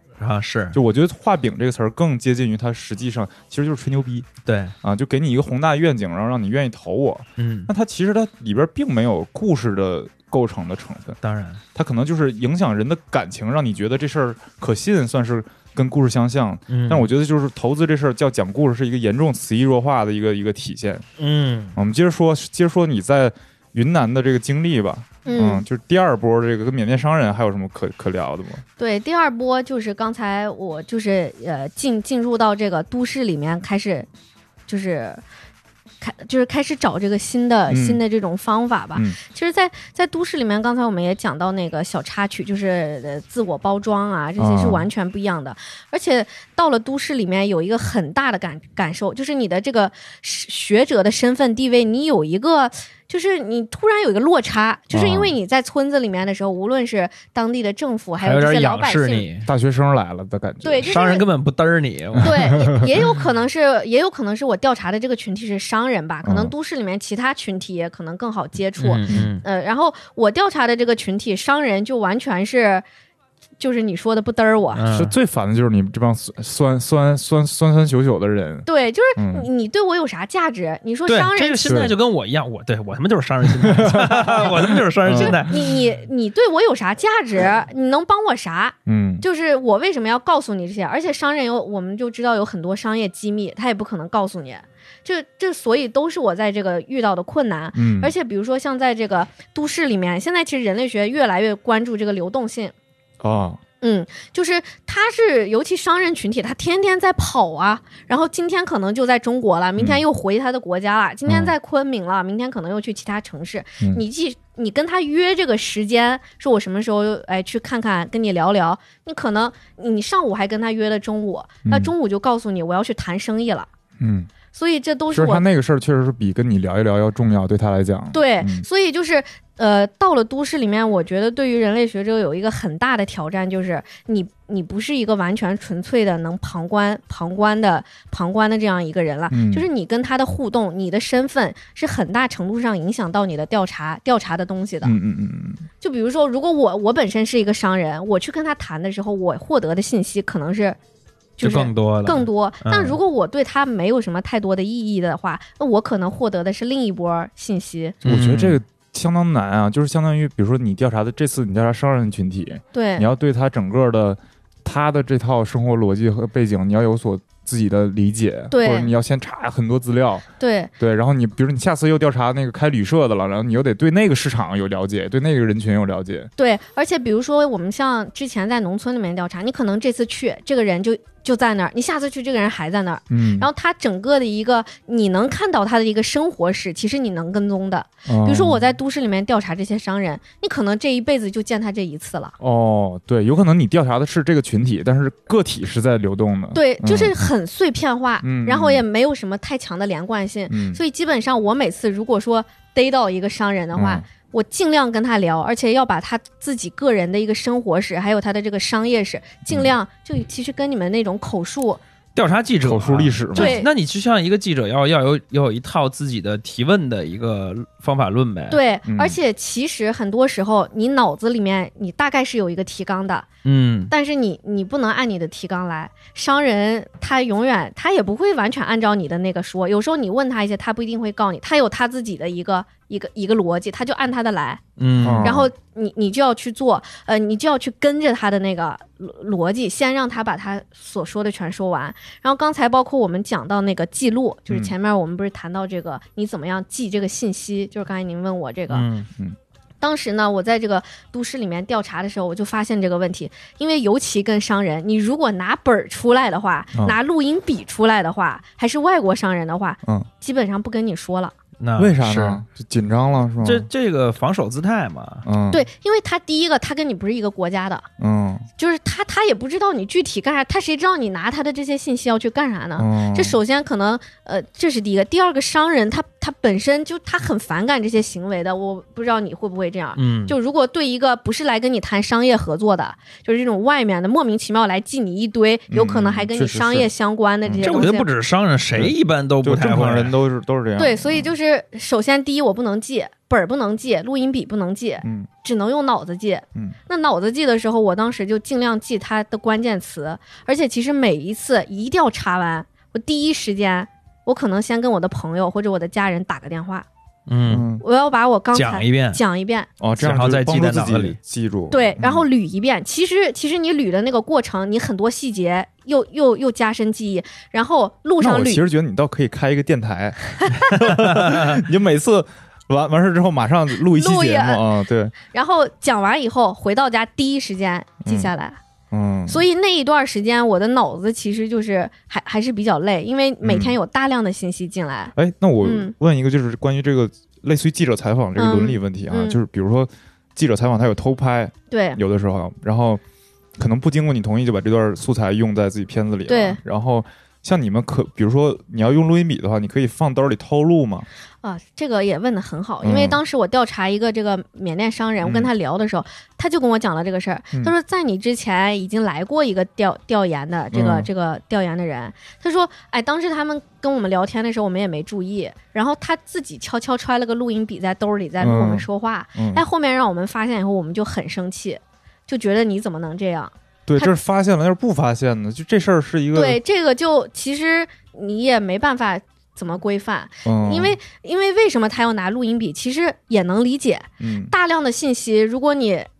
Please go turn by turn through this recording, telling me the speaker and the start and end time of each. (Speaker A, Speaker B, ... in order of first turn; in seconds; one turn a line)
Speaker A: 0.2-0.8
Speaker B: 0.7-4.3
Speaker A: 4.4-4.7
Speaker B: 4.8-11.2
Speaker A: 7.4-7.7
Speaker A: 11.2-11.6
Speaker B: 11.7-21.0
Speaker A: 16.7-17.1
Speaker A: 21.2-21.8
Speaker B: 21.8-28.6
Speaker C: 25.2-25.6
Speaker C: 28.8-34.1
Speaker C: 34.7-35.2
Speaker C: 36.0-59.2
Speaker B: 37.7-38.0
Speaker B: 44.4-44.9
Speaker B: 54.9-55.4
Speaker A: 58.2-59.5
Speaker B: 59.5-60.9
Speaker C: 60.6-61.2
Speaker A: 60.8-62.6
Speaker B: 62.2-62.8
Speaker C: 62.2-72.8
Speaker B: 66.2-66.5
Speaker A: 68.8-69.4
Speaker C: 73.6-74.8
Speaker A: 74.7-75.1
Speaker B: 74.9-79.5
Speaker C: 78.7-81.7
Speaker A: 81.1-85.7
Speaker B: 81.7-81.9
Speaker B: 83.6-85.4
Speaker C: 85.1-102.7
Speaker B: 88.8-89.2
Speaker B: 97.7-98.1
Speaker B: 103.2-103.6
Speaker C: 103.8-123.7
Speaker B: 109.8-110.0
Speaker B: 111.3-111.5
Speaker B: 121.7-121.9
Speaker B: 124.0-124.3
Speaker C: 124.5-125.4
Speaker B: 125.1-128.7
Speaker C: 128.1-144.9
Speaker B: 139.3-139.7
Speaker B: 144.8-145.7
Speaker C: 145.8-150.8
Speaker C: 151.4-158.0
Speaker A: 151.4-153.0
Speaker B: 158.0-170.2
Speaker A: 158.0-158.6
Speaker C: 162.7-163.1
Speaker C: 168.5-168.9
Speaker C: 170.4-170.7
Speaker B: 170.8-176.3
Speaker C: 176.4-192.3
Speaker B: 183.1-183.5
Speaker B: 188.1-188.6
Speaker B: 192.4-197.1
Speaker C: 196.5-211.8
Speaker B: 198.2-198.8
Speaker B: 200.5-200.8
Speaker B: 203.7-204.1
Speaker A: 212.2-218.6
Speaker B: 212.6-213.6
Speaker C: 213.3-213.7
Speaker C: 218.5-223.3
Speaker B: 218.9-219.2
Speaker A: 223.4-223.9
Speaker C: 223.9-234.7
Speaker A: 234.8-235.4
Speaker B: 235.0-235.5
Speaker C: 235.2-248.9
Speaker A: 248.7-249.1
Speaker C: 249.8-261.3
Speaker A: 261.6-262.4
Speaker B: 261.8-263.7
Speaker A: 263.4-265.2
Speaker B: 265.2-265.6
Speaker C: 265.5-267.9
Speaker B: 268.0-268.5
Speaker C: 268.6-288.1
Speaker B: 272.8-273.4
Speaker A: 279.9-280.4
Speaker B: 285.7-286.9
Speaker B: 287.4-287.8
Speaker A: 287.6-290.1
Speaker B: 288.7-291.3
Speaker C: 290.8-306.9
Speaker B: 295.0-295.3
Speaker A: 307.3-307.7
Speaker B: 307.5-307.8
Speaker C: 307.8-309.7
Speaker A: 308.5-309.2
Speaker B: 309.8-312.3
Speaker A: 310.0-311.2
Speaker C: 311.7-318.6
Speaker B: 318.2-325.1
Speaker C: 323.9-324.6
Speaker C: 325.1-328.6
Speaker B: 328.0-328.3
Speaker B: 328.9-329.4
Speaker C: 329.3-335.9
Speaker B: 333.4-333.8
Speaker B: 335.1-343.0
Speaker C: 338.4-339.4
Speaker C: 341.7-342.0
Speaker B: 343.6-351.1
Speaker C: 346.3-346.6
Speaker C: 351.4-374.1
Speaker B: 352.8-353.2
Speaker B: 355.2-355.5
Speaker B: 360.7-361.1
Speaker B: 368.4-368.9
Speaker B: 369.4-369.6
Speaker B: 373.9-376.6
Speaker C: 376.3-386.1
Speaker B: 380.4-381.0
Speaker B: 384.2-384.5